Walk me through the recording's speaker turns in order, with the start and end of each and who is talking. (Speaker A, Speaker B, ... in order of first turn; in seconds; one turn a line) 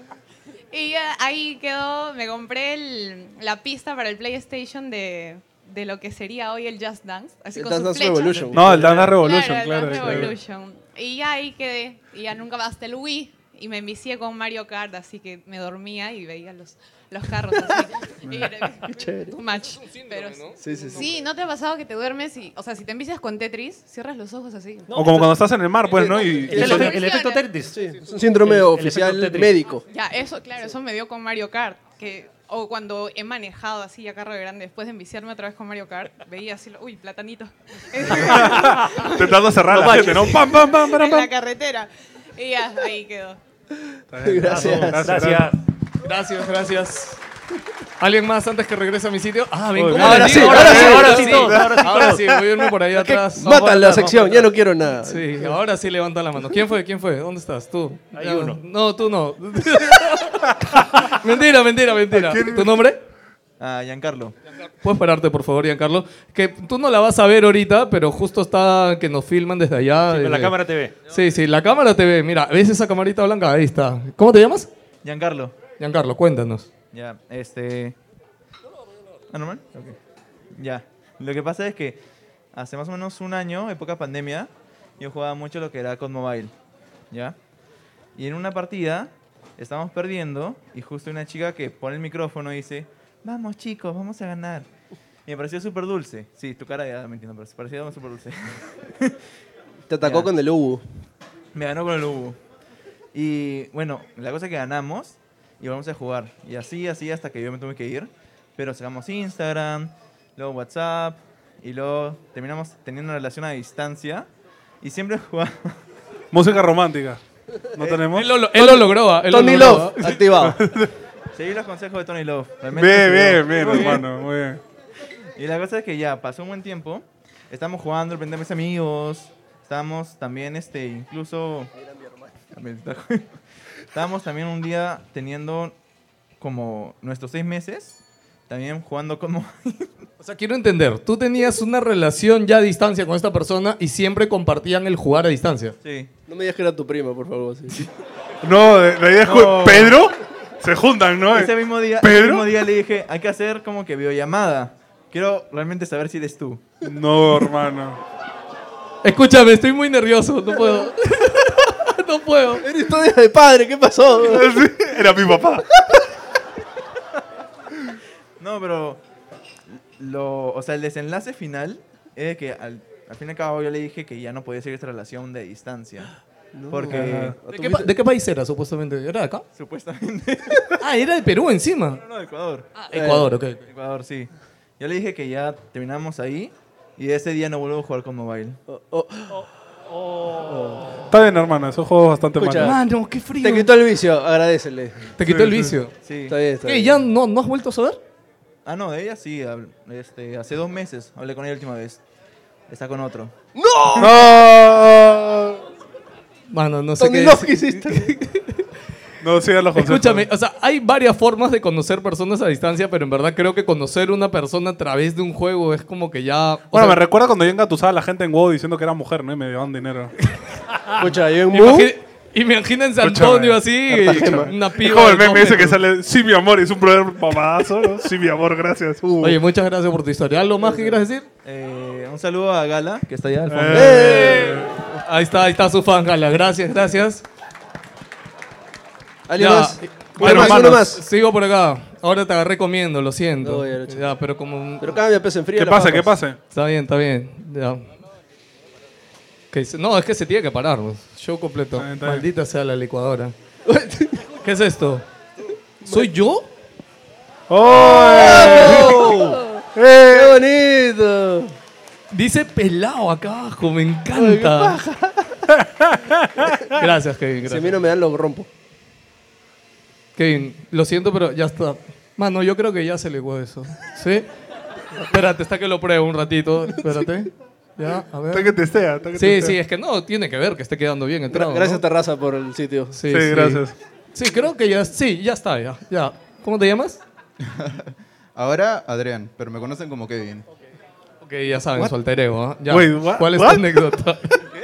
Speaker A: 0.7-25.1
Speaker B: 7.5-9.0
Speaker C: 8.3-9.2
Speaker D: 8.5-10.3
Speaker B: 18.9-19.4
Speaker E: 19.6-21.2
Speaker B: 20.6-21.1
Speaker C: 24.9-25.4
Speaker D: 24.9-26.9
Speaker B: 26.3-26.9
Speaker A: 26.4-27.5
Speaker C: 26.5-27.8
Speaker B: 27.7-29.8
Speaker C: 28.4-29.6
Speaker A: 29.9-39.4
Speaker D: 38.1-41.3
Speaker C: 38.3-40.4
Speaker A: 40.1-43.4
Speaker D: 44.1-45.5
Speaker B: 44.2-45.1
Speaker C: 44.5-45.6
Speaker E: 46.0-47.2
Speaker E: 48.0-54.4
Speaker D: 49.8-52.3
Speaker B: 50.0-51.6
Speaker C: 50.0-52.2
Speaker B: 53.0-55.5
Speaker E: 55.0-63.0
Speaker C: 58.1-58.6
Speaker D: 62.1-62.8
Speaker F: 63.6-64.3
Speaker E: 64.8-70.5
Speaker C: 70.1-71.0
Speaker E: 71.1-74.7
Speaker F: 75.0-75.5
Speaker E: 75.8-76.7
Speaker F: 76.9-78.0
Speaker F: 79.3-80.0
Speaker F: 80.5-82.0
Speaker F: 82.5-86.5
Speaker F: 87.1-87.4
Speaker F: 88.2-94.7
Speaker F: 95.2-99.2
Speaker B: 99.9-100.8
Speaker F: 100.0-100.3
Speaker F: 101.5-102.4
Speaker F: 103.1-114.3
Speaker F: 114.8-115.8
Speaker D: 116.3-117.2
Speaker D: 117.7-118.3
Speaker F: 117.8-118.0
Speaker E: 118.1-120.2
Speaker B: 118.5-120.6
Speaker D: 120.4-120.9
Speaker F: 121.3-124.1
Speaker D: 122.7-124.6
Speaker F: 125.3-131.7
Speaker B: 131.8-132.3
Speaker F: 132.5-133.3
Speaker F: 133.9-135.7
Speaker F: 136.4-140.0
Speaker E: 140.2-145.8
Speaker F: 145.8-146.1
Speaker B: 146.3-147.9
Speaker D: 148.4-152.5
Speaker F: 149.2-149.9
Speaker F: 151.3-156.8
Speaker D: 156.8-158.0
Speaker E: 159.0-162.6
Speaker B: 162.6-164.6
Speaker D: 164.2-165.7
Speaker F: 168.4-169.0
Speaker F: 169.9-176.2
Speaker B: 176.5-177.9
Speaker F: 176.7-177.3
Speaker D: 176.9-177.3
Speaker E: 177.5-179.4
Speaker F: 179.5-180.8
Speaker E: 180.8-182.0
Speaker F: 182.0-182.7
Speaker E: 182.8-183.6
Speaker B: 182.9-183.3
Speaker F: 183.6-188.6
Speaker B: 188.7-189.5
Speaker C: 189.3-191.0
Speaker B: 190.4-191.0
Speaker D: 191.1-192.8
Speaker B: 192.4-192.8
Speaker E: 192.6-193.7
Speaker B: 193.4-195.1
Speaker E: 195.2-195.9
Speaker D: 195.2-195.7
Speaker F: 196.0-196.4
Speaker B: 196.2-197.0
Speaker E: 196.6-198.0
Speaker F: 198.6-202.0
Speaker F: 202.7-203.3
Speaker B: 203.5-204.5
Speaker D: 204.0-205.4
Speaker E: 206.5-208.7
Speaker B: 207.0-208.2
Speaker D: 209.2-210.3
Speaker E: 209.7-217.0
Speaker D: 216.7-220.1
Speaker E: 220.2-220.5
Speaker B: 221.0-221.9
Speaker E: 221.5-225.8
Speaker D: 223.0-229.4
Speaker B: 223.9-224.5
Speaker E: 229.2-231.2
Speaker B: 230.6-231.0
Speaker F: 231.4-234.4
Speaker D: 233.5-234.7
Speaker B: 233.7-234.8
Speaker E: 234.1-234.4
Speaker E: 235.0-237.2
Speaker B: 239.3-241.0
Speaker E: 239.4-245.0
Speaker D: 240.2-240.9
Speaker B: 243.4-244.1
Speaker B: 244.8-246.2
Speaker D: 245.6-246.4
Speaker E: 246.5-247.8
Speaker E: 249.5-253.3
Speaker D: 251.8-252.2
Speaker B: 253.6-254.2
Speaker E: 254.4-255.0
Speaker B: 255.8-256.1
Speaker E: 255.8-256.5
Speaker D: 257.5-260.4
Speaker B: 257.7-261.5
Speaker E: 258.3-259.3
Speaker E: 262.1-264.8
Speaker B: 264.1-265.4
Speaker D: 265.5-266.9
Speaker E: 266.7-267.8
Speaker B: 267.4-268.5
Speaker E: 270.1-274.3
Speaker E: 275.0-278.6
Speaker B: 276.7-277.1
Speaker D: 278.3-279.6
Speaker E: 279.1-281.8
Speaker B: 281.3-282.9
Speaker E: 282.9-287.0
Speaker D: 283.1-283.7
Speaker G: 287.4-290.4
Speaker E: 291.2-294.4
Speaker D: 292.7-293.8